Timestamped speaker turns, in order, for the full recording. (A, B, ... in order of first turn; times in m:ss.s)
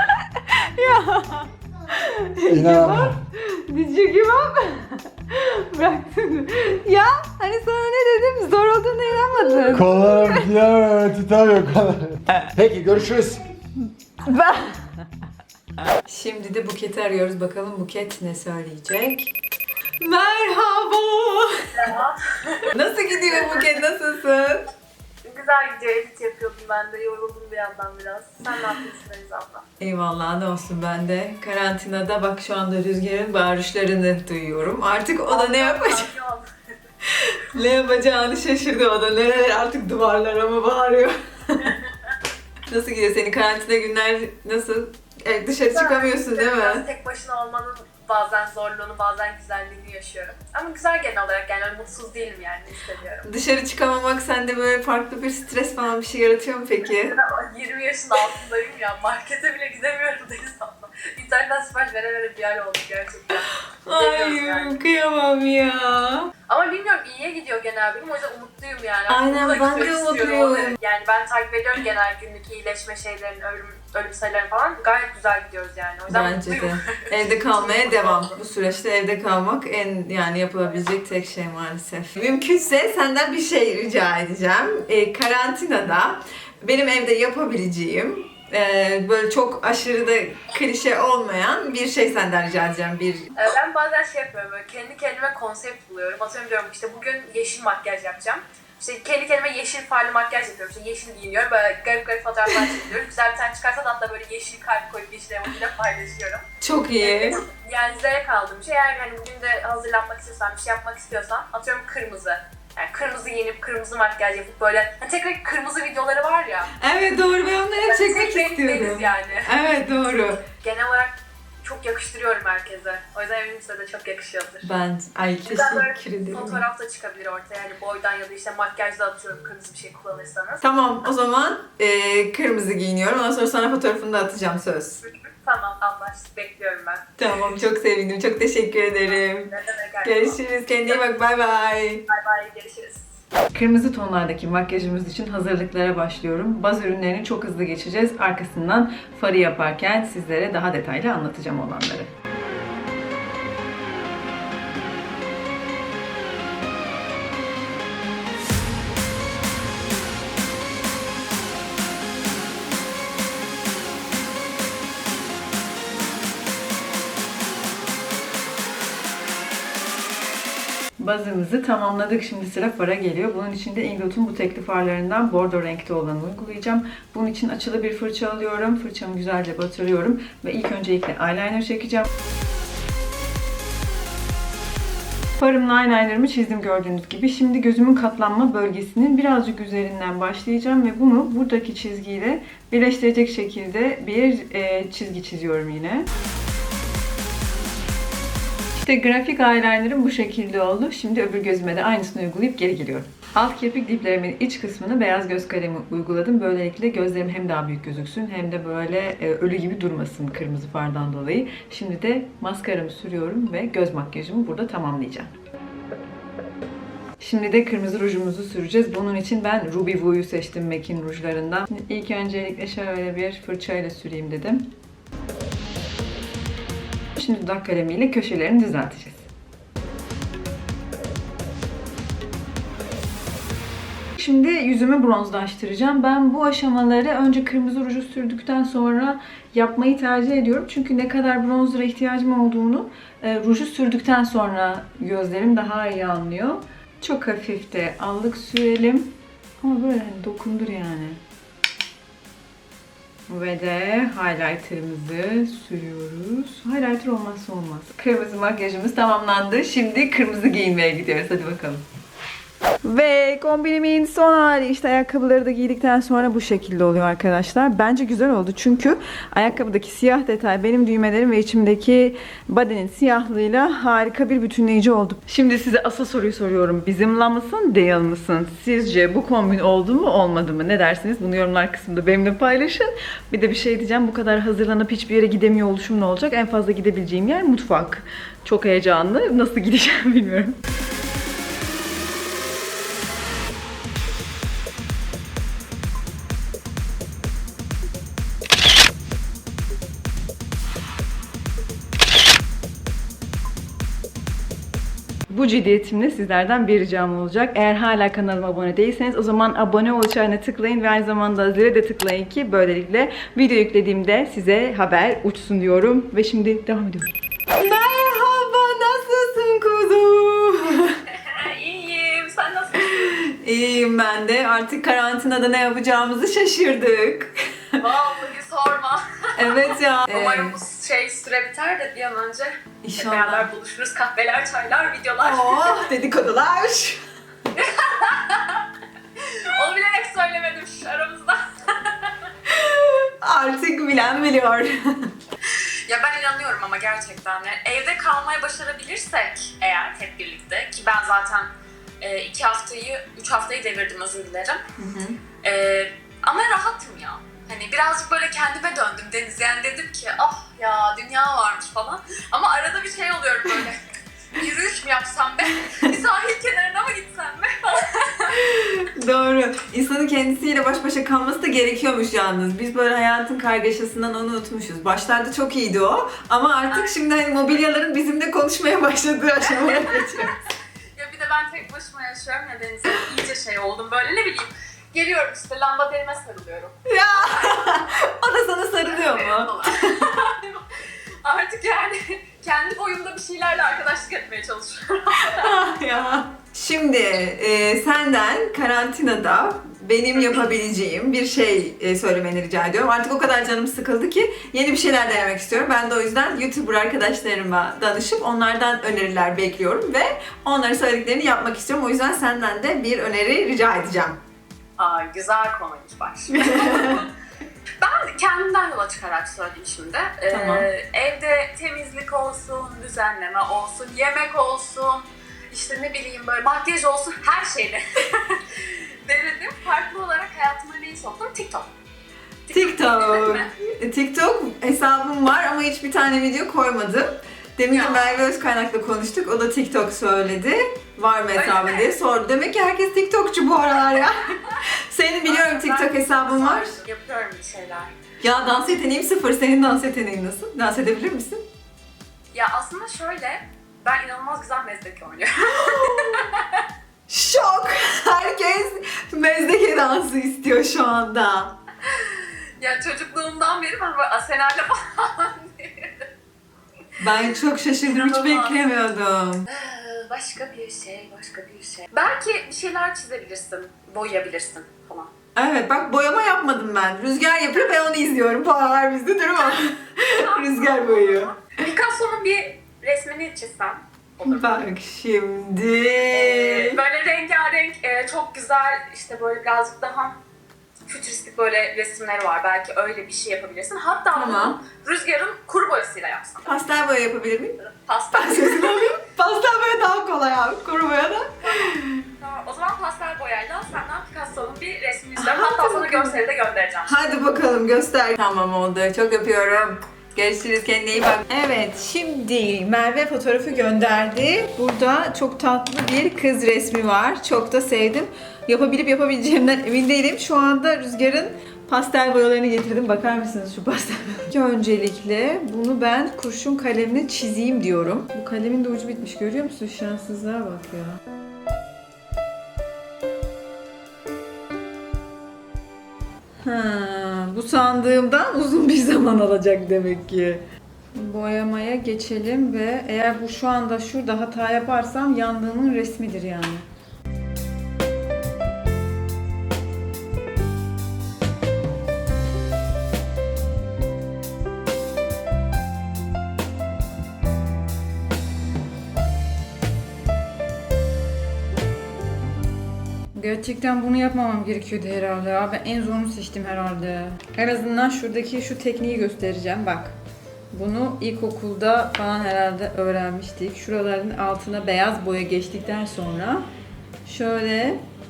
0:00.4-0:10.5 A
0:02.5-0:03.2 B
0:09.7-0:13.4 B
0:14.2-0:14.9 A
0:16.0-0:19.3 A
0:20.0-0:21.9 A
0:21.8-0:22.7 C
0:22.7-0:24.7 A
0:23.2-0:23.6 C
0:25.2-0:29.6 C
0:29.8-0:36.1 A
0:35.3-0:36.4 C
0:37.0-0:41.7 A
0:42.7-0:46.8 A
0:45.7-0:53.2 C
0:53.2-0:57.1 A
0:57.0-1:04.8 C
1:03.4-1:06.3 A
1:06.5-1:18.3 C
1:09.1-1:10.8 A
1:16.1-1:33.3 A
1:33.4-1:46.4 C
1:46.6-1:47.4 A
1:47.0-1:56.7 C
1:56.8-2:00.4 A
1:57.8-1:59.5 C
2:00.6-2:04.6 C
2:04.6-2:06.6 A
2:05.5-2:10.6 C
2:10.6-2:15.0 A
2:15.3-2:17.0 C
2:17.2-2:19.5 A
2:19.1-2:21.0 C
2:20.0-2:22.0 A
2:22.1-2:23.0 C
2:23.5-2:32.1 A
2:51.0-3:02.1 A
3:05.4-3:16.1 A
3:18.8-3:35.3 A
3:37.2-3:44.7 A
3:47.2-3:49.2 A
3:54.2-4:11.2 A
4:13.3-4:21.8 A
4:22.8-4:50.6 A
5:05.3-5:21.0 A
5:21.1-5:23.0 C
5:22.8-5:27.8 A
5:27.8-5:35.9 C
5:29.4-5:30.6 A
5:32.8-5:33.5 A
5:35.2-5:37.0 A
5:37.6-5:38.5 C
5:39.4-5:41.4 C
5:42.5-5:45.1 A
5:45.9-5:51.5 C
5:52.0-5:54.6 C
5:54.8-5:55.2 A
5:55.4-6:03.8 C
6:04.4-6:08.3 C
6:08.3-6:20.4 A
6:19.7-6:20.3 C
6:21.0-6:27.5 C
6:26.9-6:30.1 A
6:28.9-6:30.6 C
6:31.2-6:35.5 C
6:35.2-6:54.2 A
6:40.2-6:40.4 C
6:54.8-6:56.9 C
6:56.3-6:57.1 A
6:57.8-7:07.8 C
7:00.3-7:00.7 A
7:08.5-7:11.7 C
7:12.5-7:13.5 C
7:12.5-7:26.8 A
7:17.7-7:18.1 C
7:21.4-7:21.9 C
7:25.3-7:27.9 C
7:28.2-7:31.4 A
7:32.3-7:36.3 C
7:35.5-7:36.4 A
7:37.1-7:41.5 A
7:42.6-7:45.7 C
7:47.0-7:49.5 A
7:47.9-7:48.5 C
7:49.5-7:55.1 C
7:55.4-8:01.3 A
8:00.1-8:04.6 C
8:04.2-8:06.8 A
8:06.1-8:10.1 C
8:10.9-8:16.4 C
8:14.1-8:14.6 A
8:16.4-8:17.6 A
8:17.7-8:18.8 C
8:18.1-8:22.0 A
8:22.2-8:26.9 C
8:25.2-8:26.2 A
8:26.8-8:51.0 A
8:56.4-9:00.4 A
9:00.9-9:06.7 A
9:23.1-9:29.9 A
9:30.5-9:36.4 A
9:37.0-9:37.8 A